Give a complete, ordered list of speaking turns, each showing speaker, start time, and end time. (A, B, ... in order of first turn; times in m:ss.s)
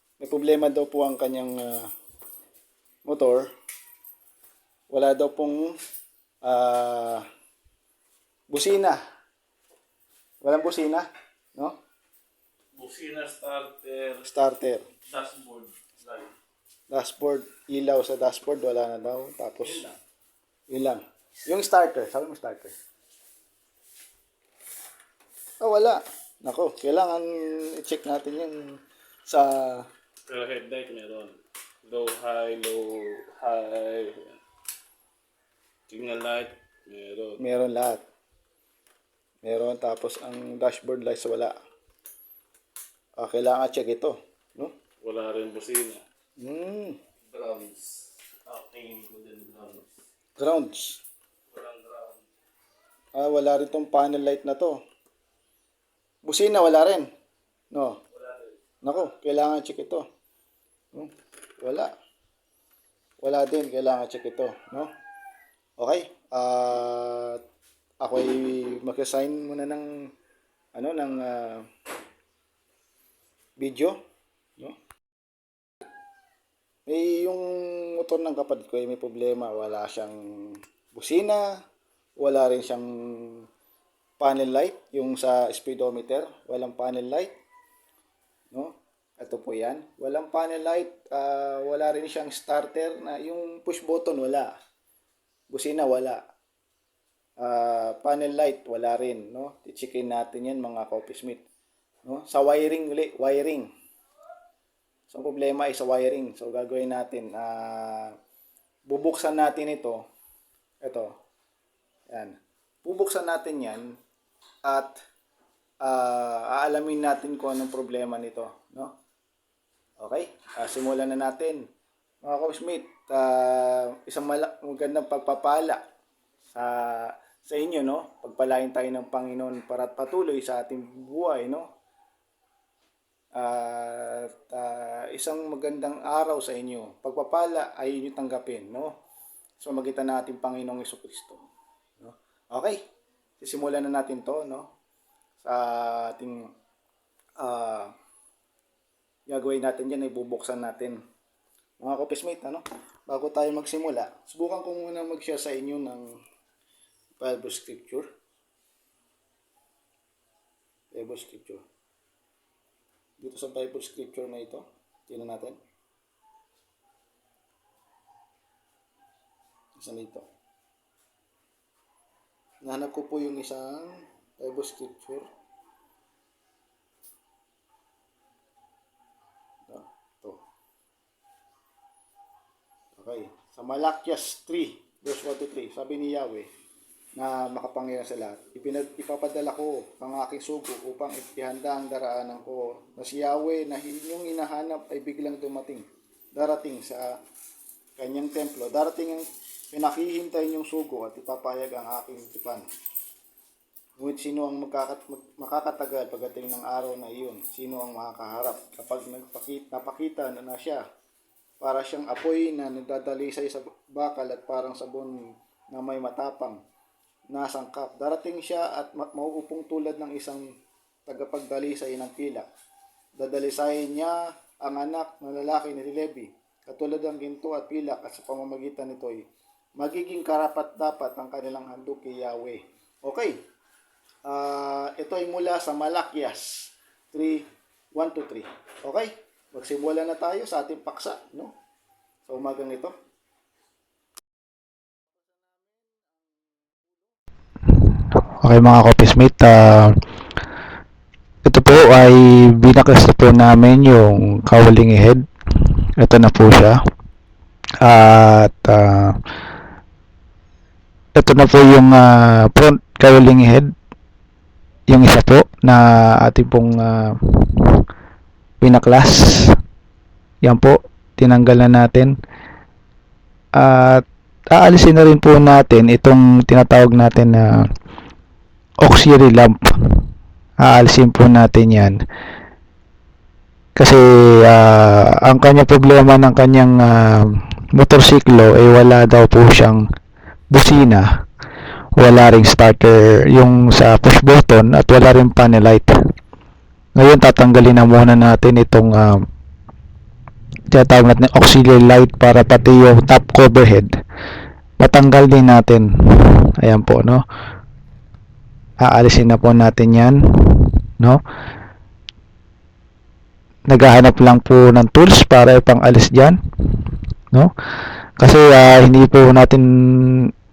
0:00.2-0:01.9 A
0:03.0-0:03.5 A
0:04.9-0:05.8 A
0:06.4-0:07.3 A
0:08.5-0:09.0 A
0:10.4-0:11.8 A
0:12.8-0:14.3 B
0:14.2-0:14.8 A
0:15.1-0:16.3 B
0:16.9-0:19.8 A
0:19.6-0:20.0 B
0:20.7-0:22.8 A
0:25.6-0:29.9 A
0:30.3-0:34.4 B
0:35.9-0:37.4 B
0:37.4-0:38.0 A
0:39.4-0:41.6 A
0:43.2-0:44.7 A
0:45.0-0:46.0 B
0:46.4-0:47.0 A
0:47.3-0:49.9 B
0:50.4-0:51.0 A
0:51.5-0:52.2 B
0:53.2-0:54.8 A
0:56.2-0:57.1 A
0:57.7-0:58.0 A
0:58.8-1:00.1 A
1:00.9-1:01.9 A
1:03.2-1:04.9 A
1:05.8-1:07.4 A
1:08.0-1:10.1 A
1:10.7-1:11.7 A
1:13.6-1:14.0 A
1:16.9-1:21.6 A
1:22.2-1:23.5 A
1:24.2-1:27.3 A
1:28.5-1:34.5 A
1:35.5-1:36.2 A
1:37.4-1:41.4 A
1:42.0-1:43.7 A
1:45.1-1:48.2 A
1:48.9-1:50.0 A
1:50.8-1:51.2 A
1:52.1-1:53.9 A
1:54.6-1:55.0 A
1:55.8-1:59.0 A
2:00.0-2:01.7 A
2:02.2-2:05.8 A
2:06.5-2:11.7 A
2:13.3-2:18.9 A
2:19.6-2:21.4 A
2:22.0-2:22.8 A
2:23.4-2:24.7 A
2:25.4-2:26.5 A
2:27.4-2:27.9 A
2:29.3-2:31.0 A
2:31.8-2:36.2 A
2:37.2-2:38.1 A
2:40.9-2:41.6 A
2:43.2-2:45.6 A
2:49.8-2:50.3 A
2:52.6-2:55.3 A
2:59.7-3:00.4 A
3:03.0-3:06.5 A
3:07.2-3:17.2 A
3:18.0-3:22.6 A
3:24.0-3:30.8 A
3:31.6-3:35.2 A
3:35.7-3:36.6 A
3:37.3-3:40.4 A
3:41.1-3:42.5 A
3:43.2-3:53.4 A
3:54.2-4:01.5 A
4:02.3-4:03.0 A
4:07.7-4:10.0 C
4:11.4-4:16.8 C
4:17.8-4:19.2 C
4:21.2-4:23.7 C
4:24.9-4:27.8 C
4:28.6-4:29.6 C
4:30.4-4:32.1 C
4:33.6-4:37.7 C
4:38.8-4:40.0 C
4:40.6-4:42.0 C
4:43.8-4:49.9 C
4:50.5-4:51.1 C
4:52.0-4:56.0 C
4:57.0-4:59.2 C
5:00.7-5:03.9 C
5:04.8-5:07.2 C
5:08.8-5:11.2 C
5:13.7-5:17.5 C
5:18.2-5:20.3 C